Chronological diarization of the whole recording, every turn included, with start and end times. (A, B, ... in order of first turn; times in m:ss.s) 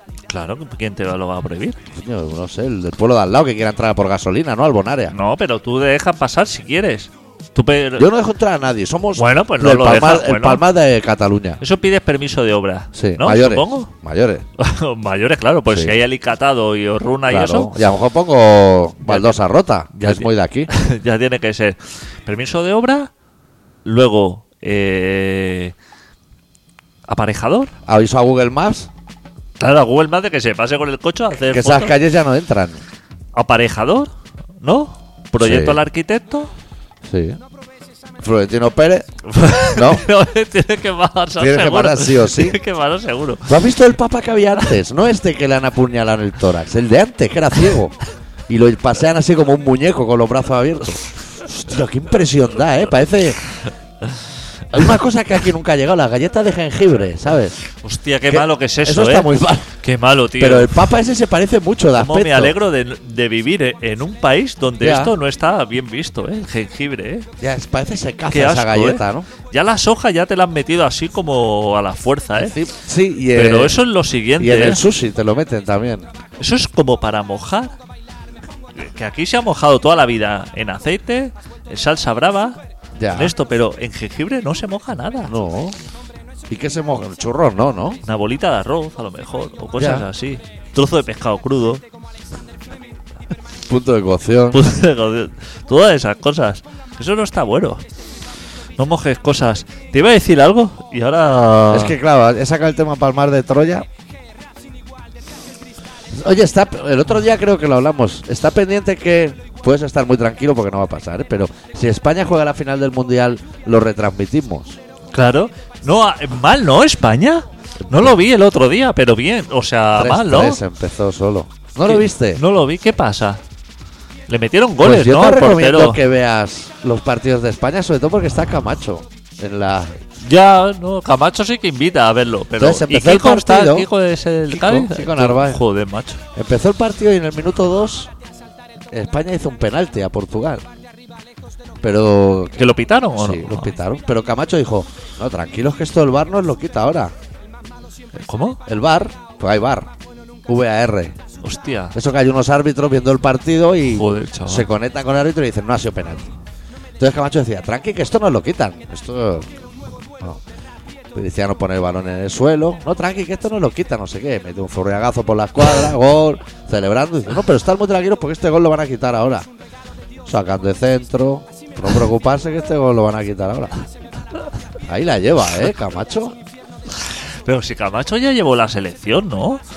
0:00.3-0:01.8 A
0:01.9-0:05.1 B
0:05.1-0:08.1 A
0:08.0-0:11.6 B
0:09.2-0:10.6 A
0:11.6-0:13.9 A
0:12.9-0:14.4 B
0:14.6-0:17.7 A
0:17.3-0:20.7 B
0:19.0-0:19.3 A
0:19.9-0:23.1 A
0:23.8-0:25.7 A
0:27.1-0:27.7 A
0:27.8-0:28.9 B
0:29.6-0:32.0 A
0:31.5-0:32.8 B
0:33.3-0:36.5 A
0:35.4-0:35.8 B
0:37.0-0:37.4 B
0:38.2-0:39.1 B
0:39.3-0:43.6 A
0:39.6-0:40.0 B
0:41.4-0:42.6 B
0:43.5-0:48.0 B
0:48.5-0:53.4 B
0:54.7-0:57.5 B
0:57.7-1:00.9 A
0:58.3-0:59.7 B
1:00.4-1:02.5 B
1:02.0-1:07.3 A
1:04.8-1:05.1 B
1:07.4-1:09.3 B
1:08.3-1:12.6 A
1:12.4-1:13.8 B
1:13.3-1:14.8 A
1:14.4-1:16.1 B
1:16.4-1:17.7 A
1:18.7-1:22.6 A
1:23.0-1:23.3 B
1:23.1-1:25.3 A
1:25.3-1:25.8 B
1:26.5-1:28.0 B
1:28.0-1:31.8 A
1:29.8-1:30.0 B
1:33.6-1:34.6 B
1:34.5-1:37.8 A
1:38.8-1:42.0 A
1:41.7-1:43.8 B
1:46.1-1:54.8 B
1:55.1-2:00.6 A
1:57.8-1:58.1 B
1:59.9-2:02.4 B
2:01.8-2:03.4 A
2:04.3-2:06.0 A
2:04.8-2:10.0 B
2:10.2-2:16.2 A
2:12.6-2:13.9 B
2:14.5-2:15.6 B
2:16.3-2:18.1 B
2:18.9-2:20.6 B
2:21.8-2:27.1 B
2:22.6-2:23.7 A
2:28.1-2:28.6 A
2:28.6-2:29.9 B
2:30.5-2:31.2 B
2:31.4-2:32.0 A
2:31.9-2:36.3 B
2:33.9-2:34.7 A
2:37.0-2:39.5 B
2:41.1-2:49.5 B
2:50.2-2:53.7 B
2:54.8-2:56.4 B
2:57.0-2:59.6 A